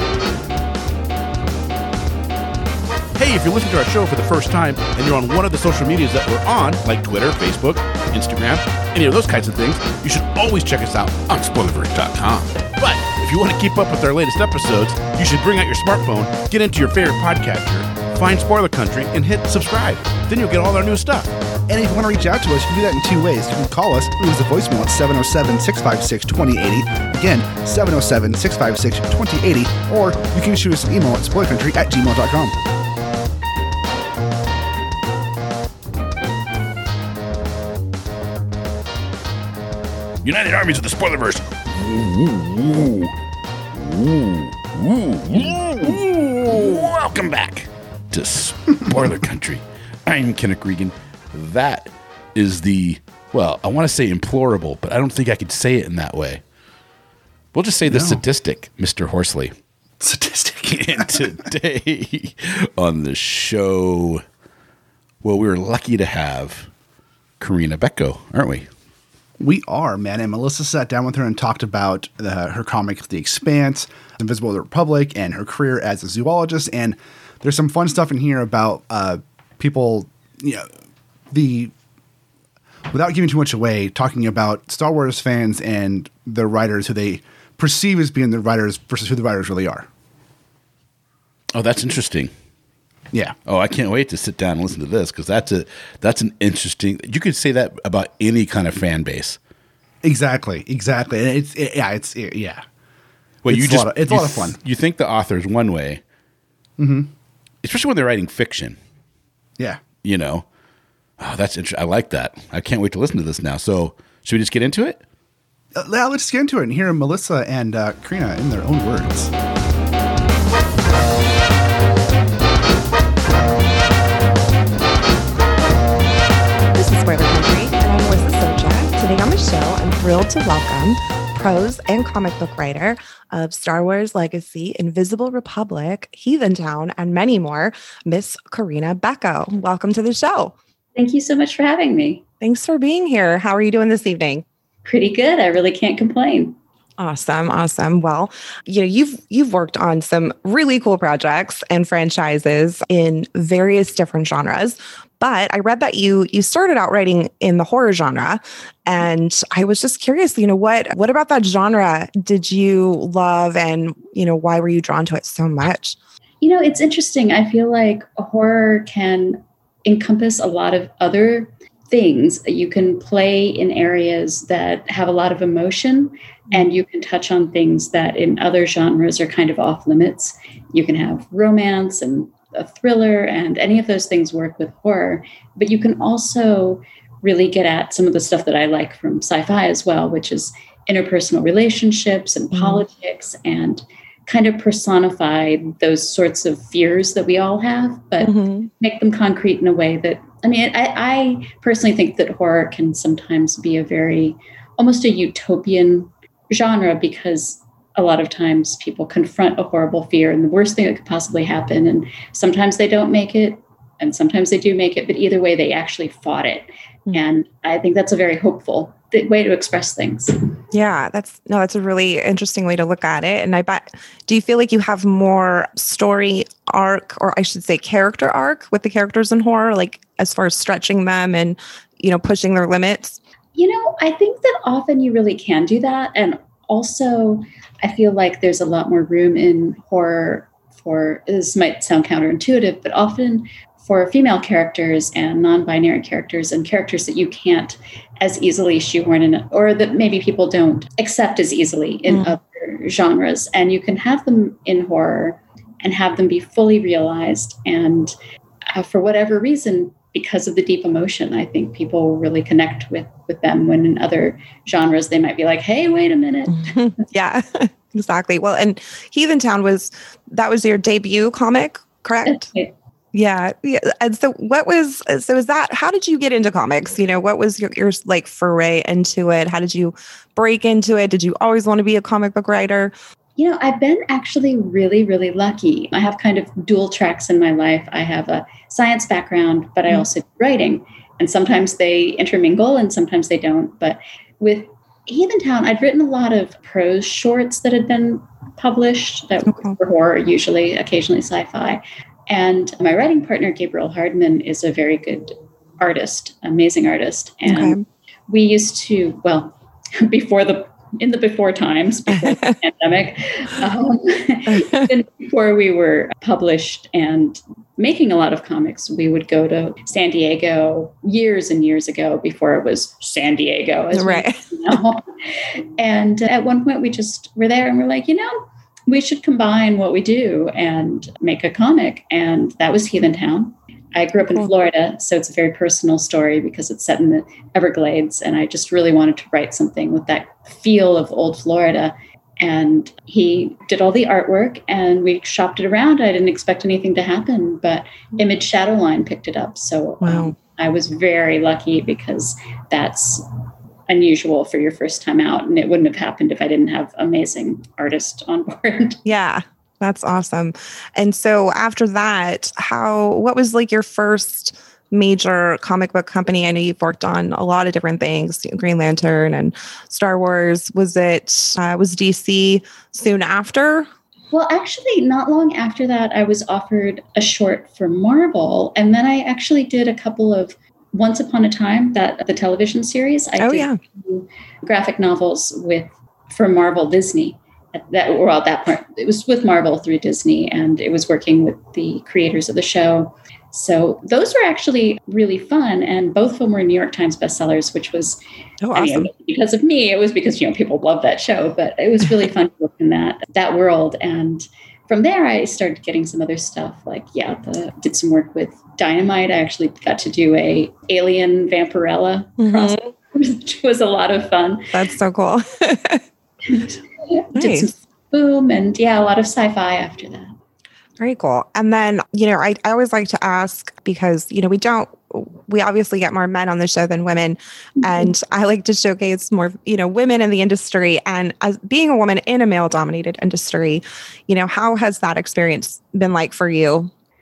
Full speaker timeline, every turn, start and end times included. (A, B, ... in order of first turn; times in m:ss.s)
0:03.2-0:21.3 A
0:21.7-0:32.6 B
0:40.2-0:43.1 A
0:43.8-0:56.4 A
0:57.5-0:59.5 A
0:57.9-0:58.2 B
1:00.0-1:01.4 B
1:00.7-1:04.2 A
1:05.2-1:06.7 A
1:07.4-1:08.7 A
1:09.4-1:20.7 B
1:21.3-1:21.7 B
1:22.9-1:29.9 B
1:31.5-1:32.3 A
1:33.5-1:39.4 A
1:40.0-1:42.6 B
1:43.4-1:46.0 A
1:43.5-1:44.6 B
1:46.8-1:47.1 B
1:47.6-1:48.8 A
1:50.0-1:50.4 A
1:51.2-1:55.0 A
1:55.8-1:59.3 B
2:06.7-2:20.5 C
2:21.0-2:22.2 D
2:22.4-2:24.4 C
2:24.8-2:26.6 D
2:27.0-2:46.0 C
2:46.4-3:40.4 D
3:12.5-3:12.8 C
3:18.2-3:18.7 C
3:40.7-3:53.2 C
3:53.6-4:18.2 D
4:18.7-4:26.8 D
4:26.6-4:32.5 C
4:32.3-4:32.7 D
4:33.1-4:42.9 C
4:43.4-5:53.3 D
4:59.5-4:59.8 C
5:07.5-5:07.8 C
5:12.1-5:12.5 C
5:14.5-5:14.9 C
5:23.9-5:24.8 C
5:34.2-5:34.5 C
5:50.0-5:50.4 C
5:53.9-5:59.0 D
5:59.0-6:13.9 C
6:14.3-6:38.2 D
6:23.4-6:23.8 C
6:38.6-6:39.1 C
6:38.7-6:54.7 D
6:52.4-6:52.9 C
6:54.7-6:56.0 C
6:56.5-7:00.3 D
6:57.4-6:57.8 C
7:01.0-7:16.9 C
7:07.8-7:08.1 D